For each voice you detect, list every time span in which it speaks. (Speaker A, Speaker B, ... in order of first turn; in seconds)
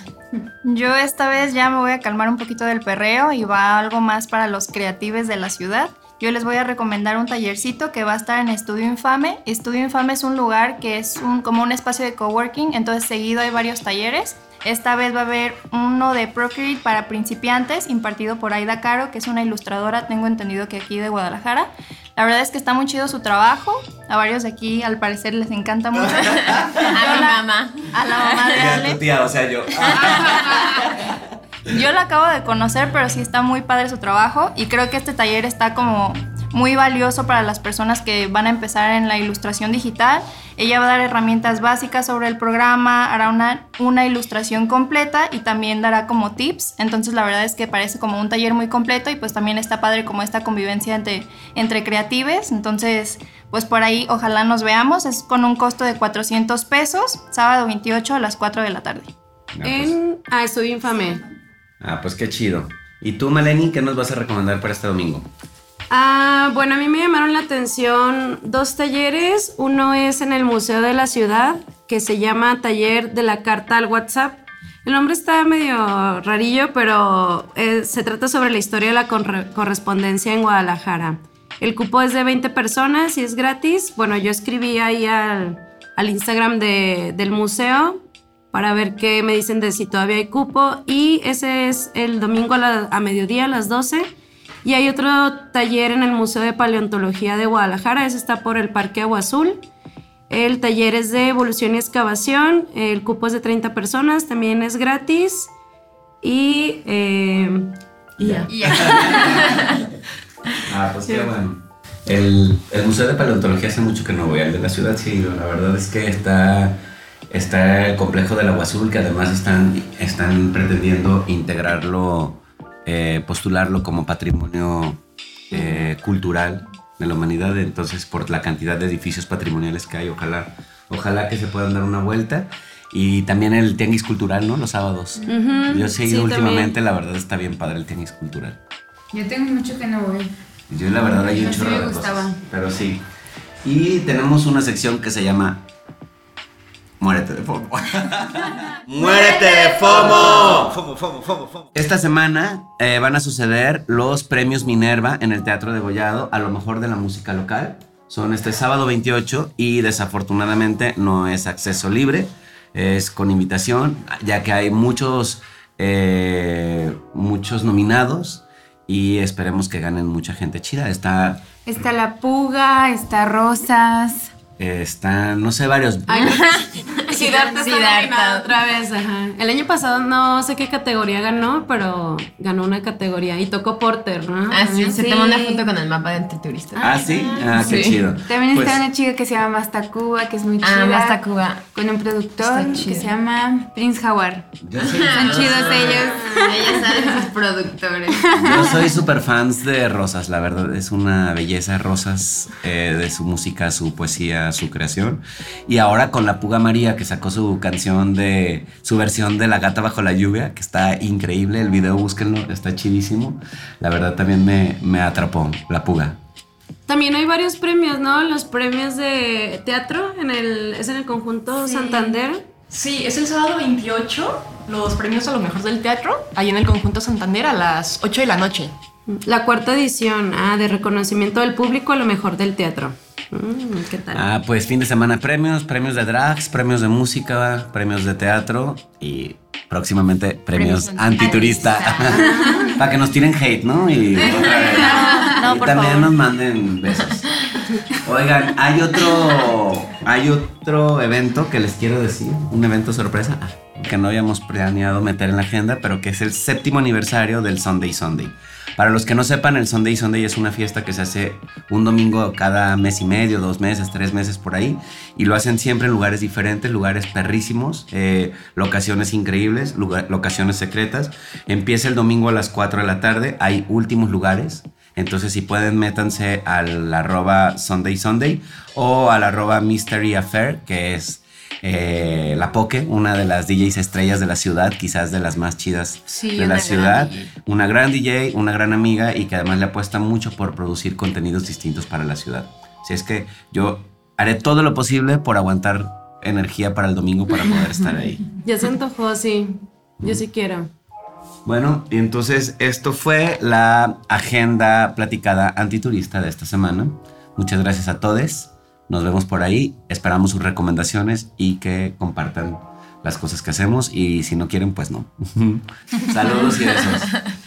Speaker A: 0.6-29.0, 30.0-30.5, 31.7-59.1
Speaker B: 25.9-27.2, 28.5-31.1, 59.5-60.0, 61.8-65.3, 108.2-109.7, 110.6-116.8, 117.3-138.6, 140.7-143.0, 143.6-145.6, 147.0-171.4, 174.6-176.4, 186.8-188.8, 194.6-196.1, 198.3-216.2, 234.1-247.2, 248.0-298.2, 301.4-317.1
Speaker C: 26.9-28.6, 176.3-178.5, 184.5-187.0, 187.5-187.9, 190.6-191.6, 192.4-193.1, 195.0-198.6, 240.5-242.1, 286.2-287.2
Speaker D: 59.6-61.2, 65.9-88.0, 88.5-94.1, 94.6-99.6, 100.3-105.5, 106.2-107.7, 135.3-136.7, 176.1-185.4, 187.0-187.5, 196.2-197.2, 216.9-222.5, 229.1-234.2, 242.1-242.7, 298.4-300.7
Speaker E: 108.6-109.4, 139.1-140.3, 141.0-142.4, 149.0-150.1, 171.7-174.3, 184.9-185.6, 187.6-197.1, 198.2-198.9, 244.6-245.2
Speaker F: 221.6-222.2, 222.7-228.7, 244.5-246.1